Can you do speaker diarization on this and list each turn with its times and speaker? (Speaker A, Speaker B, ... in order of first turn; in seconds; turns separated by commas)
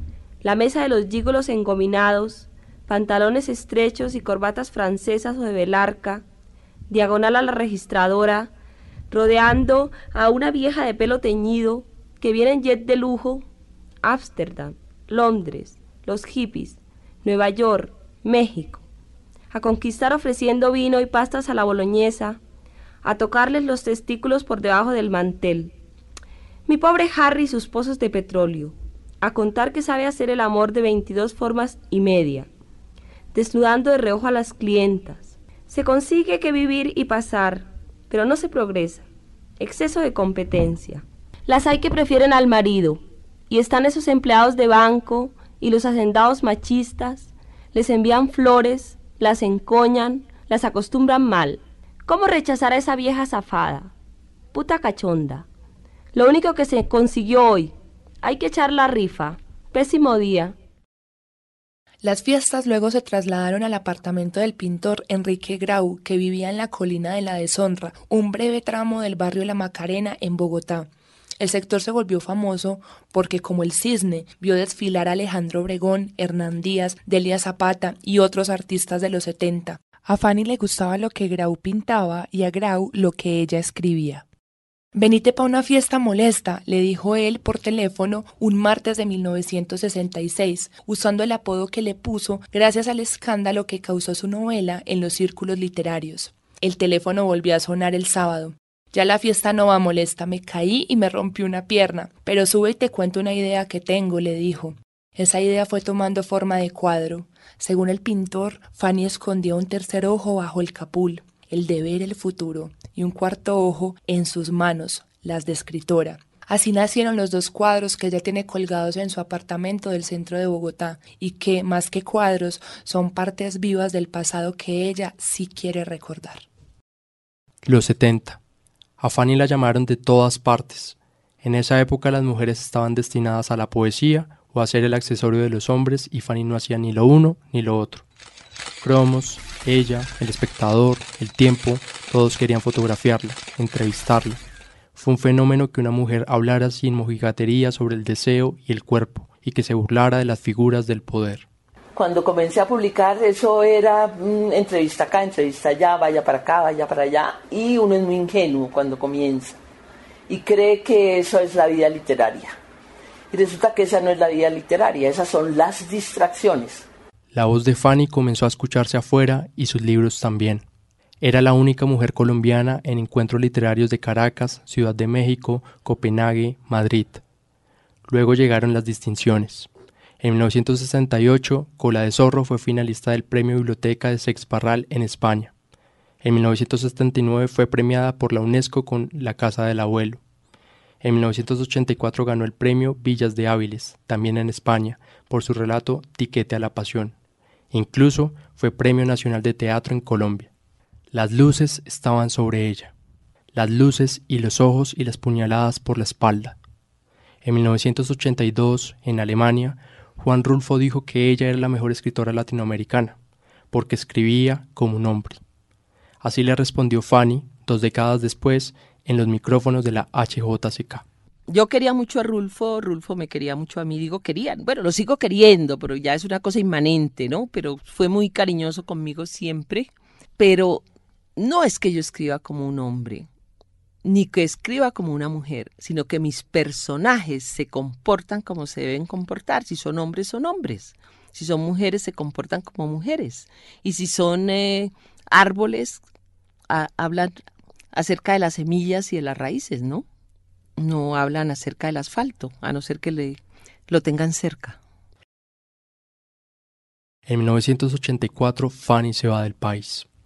Speaker A: 0.4-6.2, Speaker A: 6.9-8.5, Speaker A: 9.1-13.5, Speaker A: 14.0-18.8, Speaker A: 19.5-22.4, Speaker A: 23.0-25.8, Speaker A: 26.7-32.5, Speaker A: 33.3-39.1, Speaker A: 39.6-53.9, Speaker A: 54.5-55.5, Speaker A: 56.1-60.6, Speaker B: 62.0-70.9, Speaker B: 71.4-84.2, Speaker B: 85.0-126.5, Speaker C: 127.7-128.4, Speaker C: 129.0-138.0, Speaker C: 138.8-144.4, Speaker C: 144.9-151.5, Speaker D: 151.9-159.6, Speaker D: 160.3-162.6, Speaker D: 163.3-166.9, Speaker C: 167.3-170.6, Speaker C: 171.2-177.2, Speaker C: 178.1-179.7, Speaker C: 180.2-185.5, Speaker C: 186.2-190.2, Speaker C: 191.0-197.2, Speaker C: 197.7-200.5, Speaker C: 201.1-202.9, Speaker C: 203.5-206.6, Speaker C: 207.4-213.2, Speaker C: 213.7-215.4, Speaker C: 216.2-221.0, Speaker E: 221.5-229.9, Speaker D: 221.5-229.7, Speaker E: 230.4-230.8, Speaker E: 231.4-233.3, Speaker D: 231.5-233.2, Speaker E: 234.1-246.0, Speaker D: 234.2-245.9, Speaker E: 246.7-247.3, Speaker D: 246.8-247.3, Speaker E: 247.9-250.0, Speaker D: 248.0-250.0, Speaker E: 250.8-253.4, Speaker D: 250.9-253.3, Speaker E: 253.9-254.8, Speaker D: 253.9-254.7, Speaker C: 257.3-260.1